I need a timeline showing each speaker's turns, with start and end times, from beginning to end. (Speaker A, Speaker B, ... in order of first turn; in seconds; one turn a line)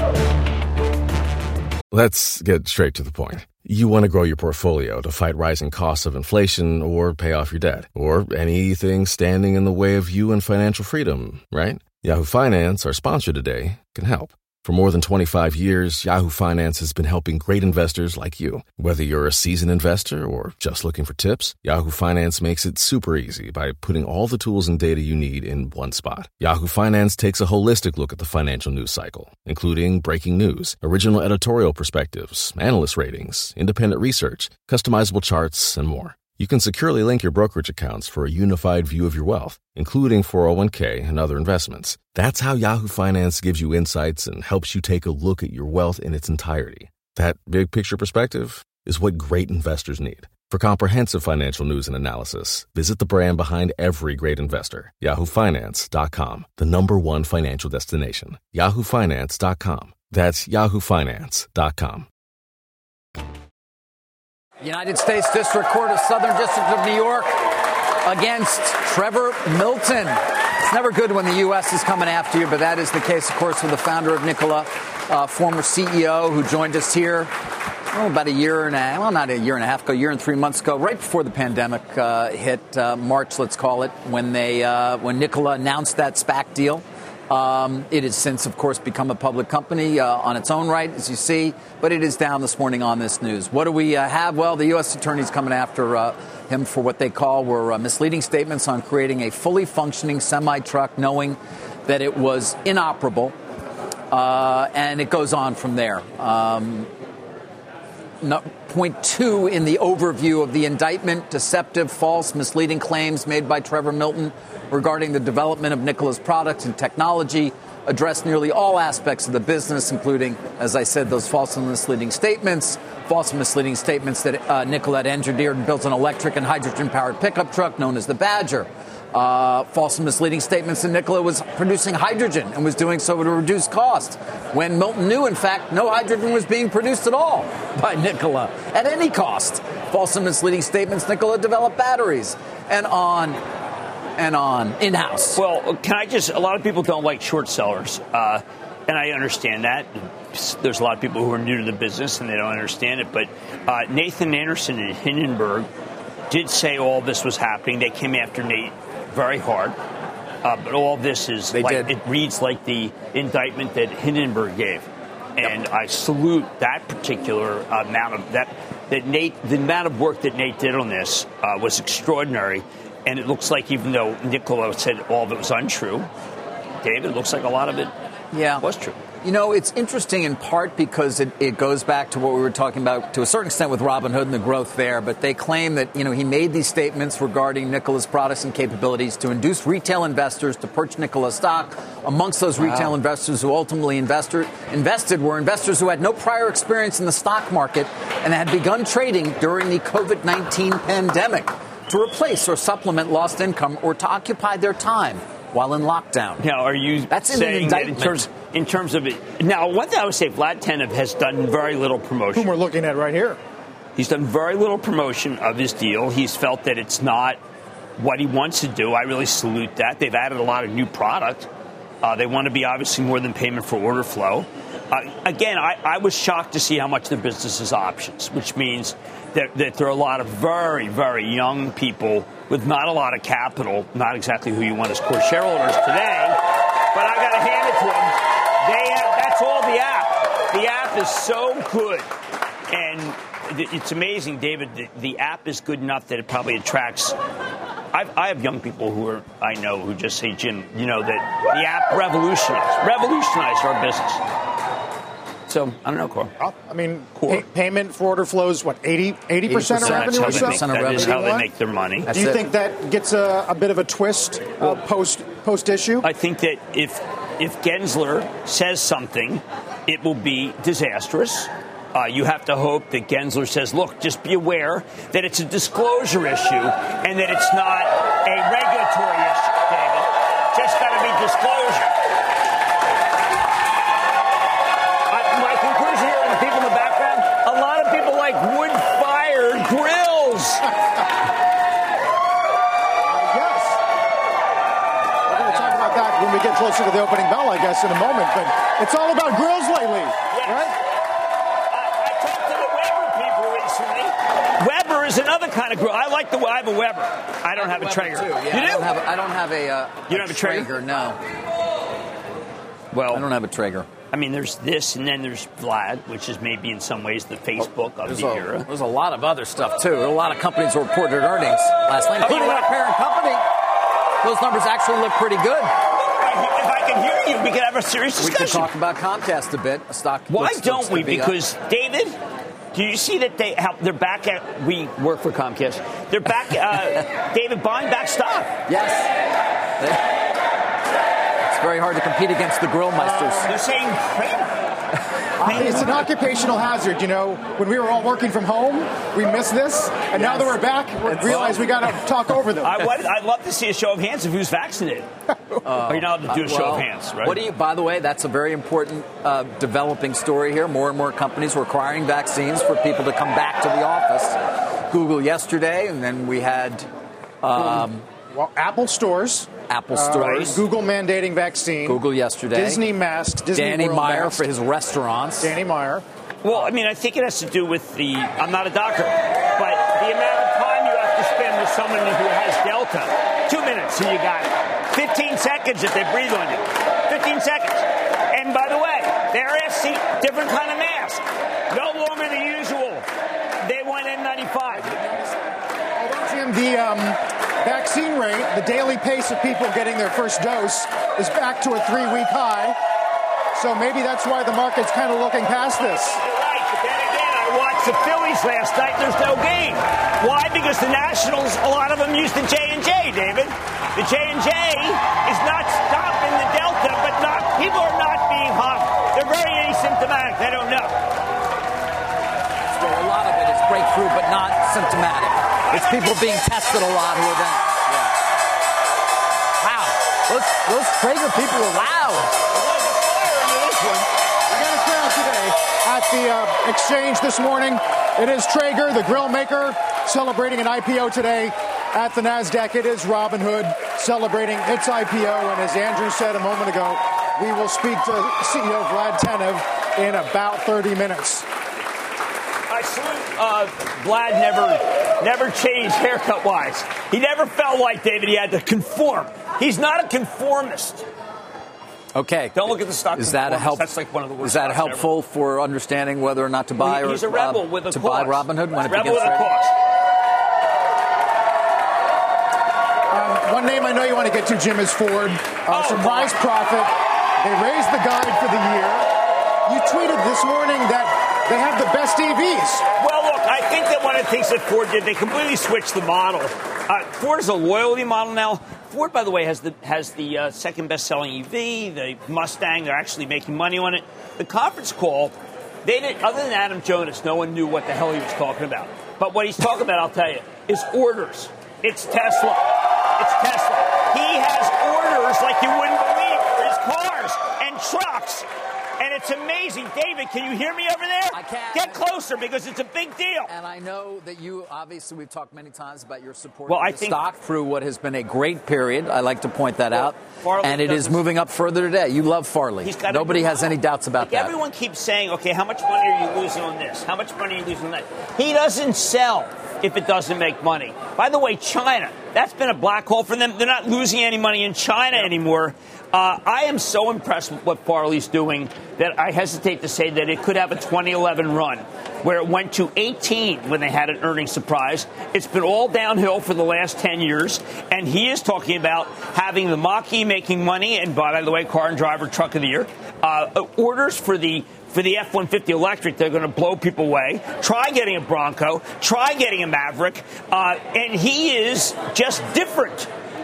Speaker A: 1.9-62.1
Speaker B: 64.6-77.3
Speaker B: 77.9-103.4
Speaker B: 104.1-106.9
Speaker B: 108.2-143.4
Speaker B: 144.2-145.4
Speaker C: 145.4-155.7
Speaker C: 156.3-159.8
Speaker C: 160.4-176.1
Speaker B: 161.5-161.9
Speaker C: 176.8-177.9
Speaker B: 178.3-178.7
Speaker C: 178.6-179.0
Speaker B: 179.2-206.5
Speaker C: 206.4-212.5
Speaker B: 207.1-208.3
Speaker D: 212.3-213.4
Speaker C: 213.9-217.4
Speaker C: 218.0-221.5
Speaker C: 222.0-236.4
Speaker C: 236.9-242.1
Speaker C: 242.7-247.2
Speaker C: 247.9-254.2
Speaker C: 255.5-256.3
Speaker D: 256.4-261.4
Speaker C: 257.1-257.4
Speaker B: 259.5-261.3
Speaker C: 259.8-262.1
Speaker B: 262.1-262.5
Speaker D: 262.1-266.1
Speaker C: 266.0-281.9
Speaker C: 285.1-290.6
Speaker D: 293.1-293.8
Speaker D: 295.3-300.7
Speaker C: 300.3-300.8
Speaker C: 301.7-308.9
Speaker B: 307.6-311.2
Speaker C: 310.1-310.7
Speaker C: 312.9-313.2
Speaker B: 313.1-313.9
Speaker C: 314.1-318.7
Speaker B: 317.6-323.4
Speaker C: 322.2-322.7
Speaker B: 324.2-325.7
Speaker C: 325.9-328.7
Speaker B: 328.2-331.4
Speaker C: 330.3-332.1
Speaker C: 332.7-338.5
Speaker B: 338.7-339.1
Speaker B: 339.8-340.1
Speaker B: 341.4-343.5
Speaker D: 343.0-343.5
Speaker C: 343.5-344.5
Speaker D: 345.4-352.8
Speaker C: 345.5-345.8
Speaker B: 350.2-351.6
Speaker C: 351.3-351.6
Speaker C: 352.6-355.1
Speaker B: 355.6-366.9
Speaker C: 355.9-357.4
Speaker B: 367.4-368.1
Speaker D: 368.3-372.0
Speaker B: 369.7-370.6
Speaker B: 371.9-372.8
Speaker D: 372.5-374.4
Speaker B: 373.5-375.6
Speaker D: 375.4-376.0
Speaker C: 376.4-393.1
Speaker C: 393.6-394.9
Speaker D: 394.8-395.4
Speaker D: 396.0-402.8
Speaker D: 403.6-406.2
Speaker C: 406.0-421.0
Speaker B: 422.6-428.1
Speaker C: 425.7-426.2
Speaker B: 429.6-432.4
Speaker C: 432.5-434.1
Speaker D: 434.5-451.5
Speaker C: 452.7-461.1
Speaker B: 462.1-462.6
Speaker C: 462.5-465.1
Speaker B: 463.1-469.5
Speaker C: 466.8-469.7
Speaker D: 473.1-479.1
Speaker C: 475.7-476.4
Speaker D: 479.7-482.8
Speaker C: 483.0-508.4
Speaker C: 509.0-513.5
Speaker B: 511.3-512.0
Speaker B: 513.5-524.5
Speaker C: 516.7-517.2
Speaker C: 519.9-521.2
Speaker C: 522.8-563.1